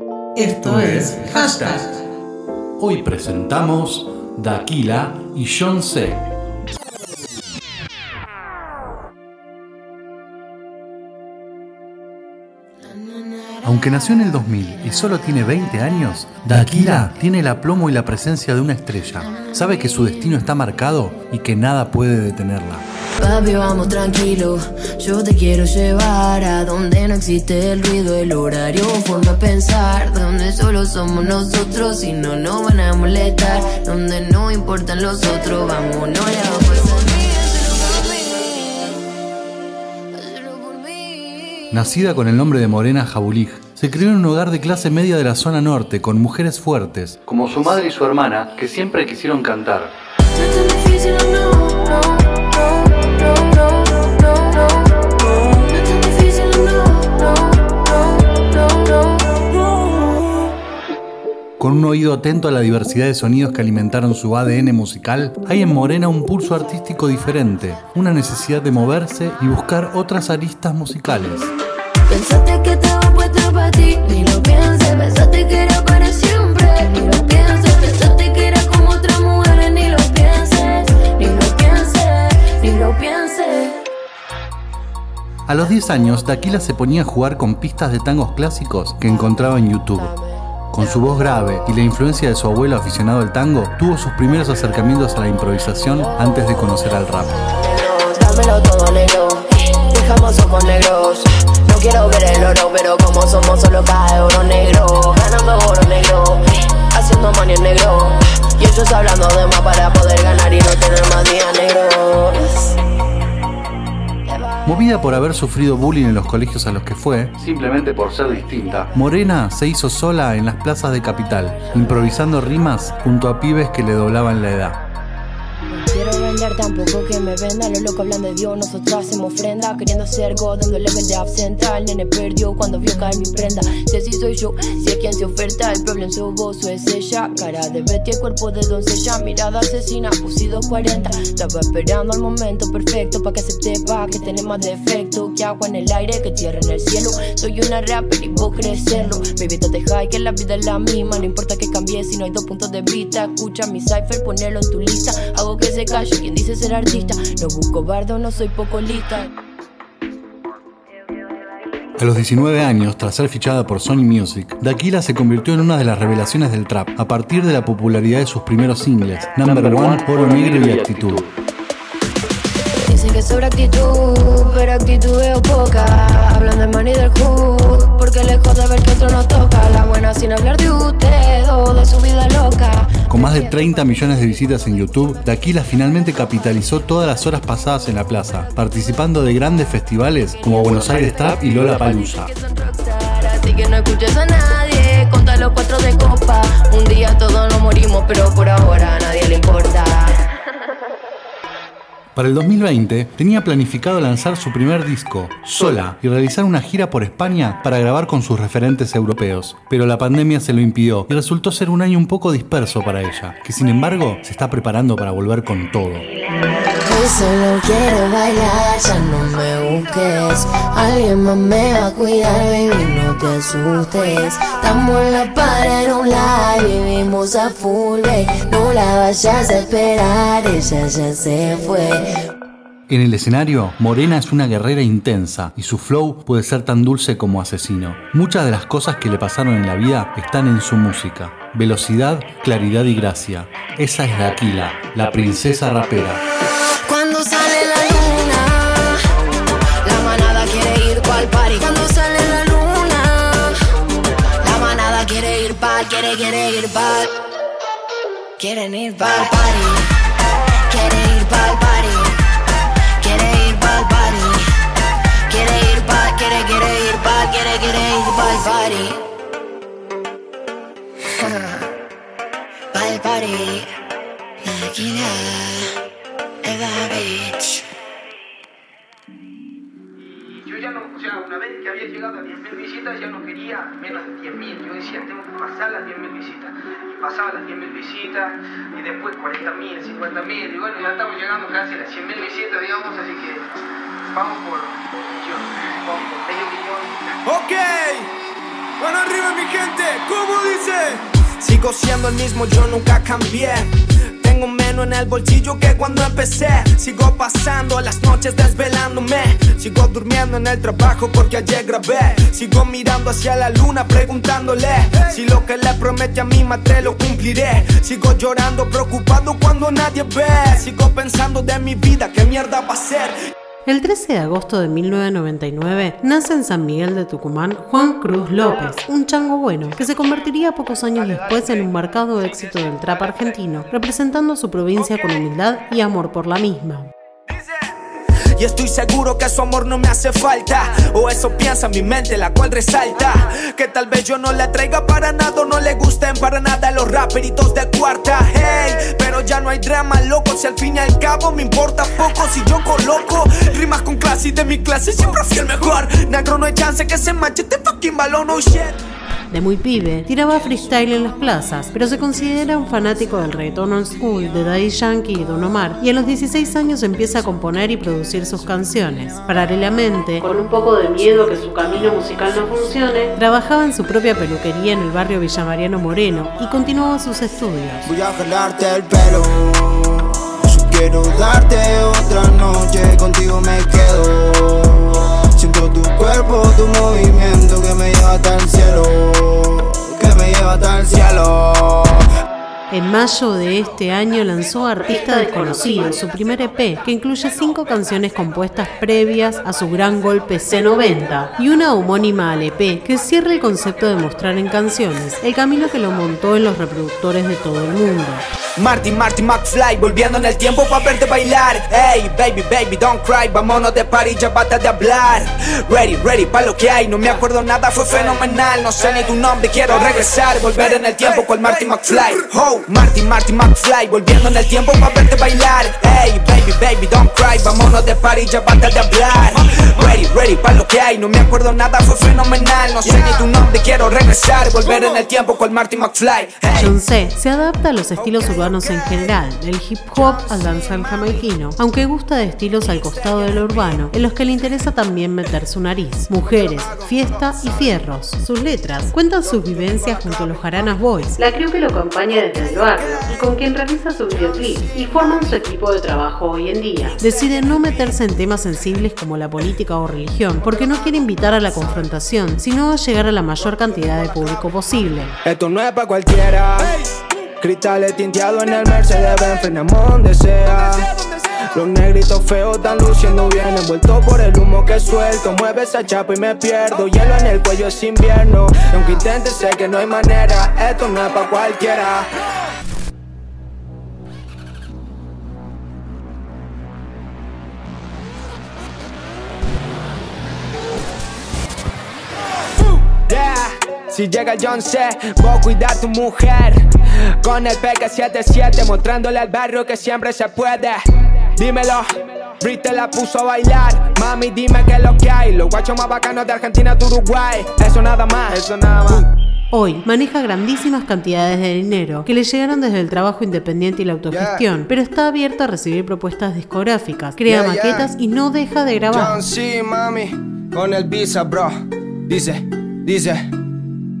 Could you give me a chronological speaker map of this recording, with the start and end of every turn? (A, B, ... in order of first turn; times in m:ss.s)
0:00.4-0:01.9 A
0:00.6-0:01.8 B
0:02.8-0:06.2 B
0:12.9-0:14.1 C
0:13.6-0:22.8 B
0:19.4-0:20.2 C
0:23.2-0:39.1 C
0:40.1-0:41.7 C
0:41.7-0:49.9 B
0:50.3-1:00.1 C
1:01.6-1:11.5 B
1:12.1-1:23.8 C
1:25.5-1:30.1 B
1:29.8-1:30.2 C
1:30.7-1:37.4 B
1:30.8-1:31.1 C
1:37.4-1:52.7 C
1:54.2-1:55.2 C
1:54.6-2:04.8 B
1:58.1-1:59.2 C
2:05.7-2:39.3 C
2:42.0-2:51.2 B
2:52.8-3:03.7 C
3:03.1-3:12.3 B
3:10.3-3:20.2 C
3:22.1-3:36.1 B
3:36.7-3:52.1 C
3:52.9-4:06.2 B
4:06.9-4:09.0 C
4:09.8-4:13.6 C
4:14.4-4:17.1 C
4:18.4-4:19.9 C
4:20.7-4:22.1 C
4:23.0-4:24.4 C
4:25.3-4:29.0 C
4:31.2-4:31.7 C
4:32.7-4:33.7 C
4:34.4-4:35.7 C
4:36.4-4:37.6 C
4:40.1-4:53.5 D
4:54.1-4:56.9 D
4:57.1-4:58.1 E
4:58.8-5:23.2 E
5:23.6-5:36.9 A
5:37.3-5:37.6 E
5:38.4-5:58.8 E
5:59.3-6:17.9 A
6:17.9-6:31.9 F
6:32.7-6:48.2 A
6:48.6-7:16.7 E
7:16.5-7:45.1 A
7:18.0-7:18.6 E
7:26.3-7:27.1 E
7:45.2-8:02.1 E
8:12.9-8:29.1 E
8:29.5-8:39.2 A
8:34.1-8:34.4 E
8:37.2-8:37.9 E
8:38.9-8:43.3 E